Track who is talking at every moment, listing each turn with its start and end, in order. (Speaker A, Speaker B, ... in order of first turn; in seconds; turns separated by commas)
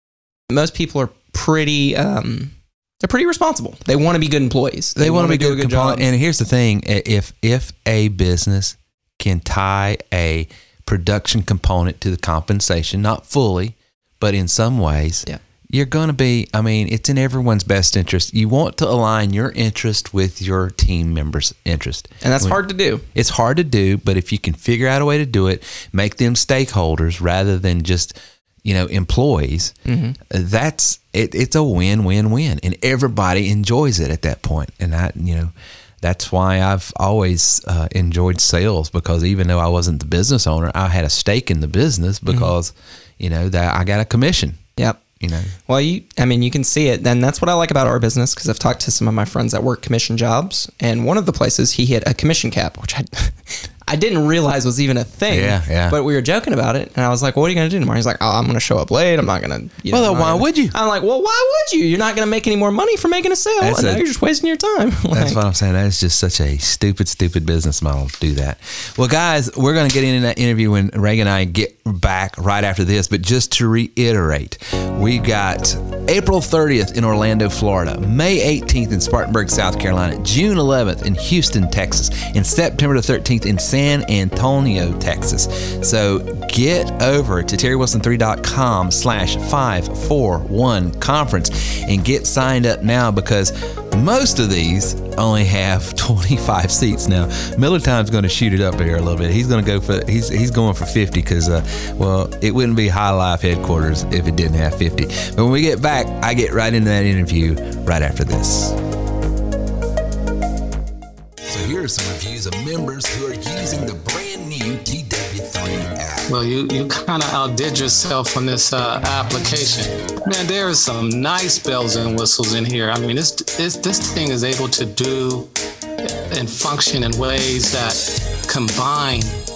Speaker A: 0.5-6.1, Speaker B: 5.0-22.6, Speaker A: 22.2-23.0, Speaker B: 23.1-29.8, Speaker A: 29.9-30.2, Speaker B: 30.3-44.6, Speaker A: 44.8-45.0, Speaker B: 45.2-45.5, Speaker A: 45.7-65.4, Speaker B: 55.3-56.0, Speaker B: 59.9-60.8, Speaker B: 63.6-64.0, Speaker B: 65.1-108.8, Speaker B: 111.5-116.3, Speaker C: 116.3-125.5, Speaker C: 126.3-129.3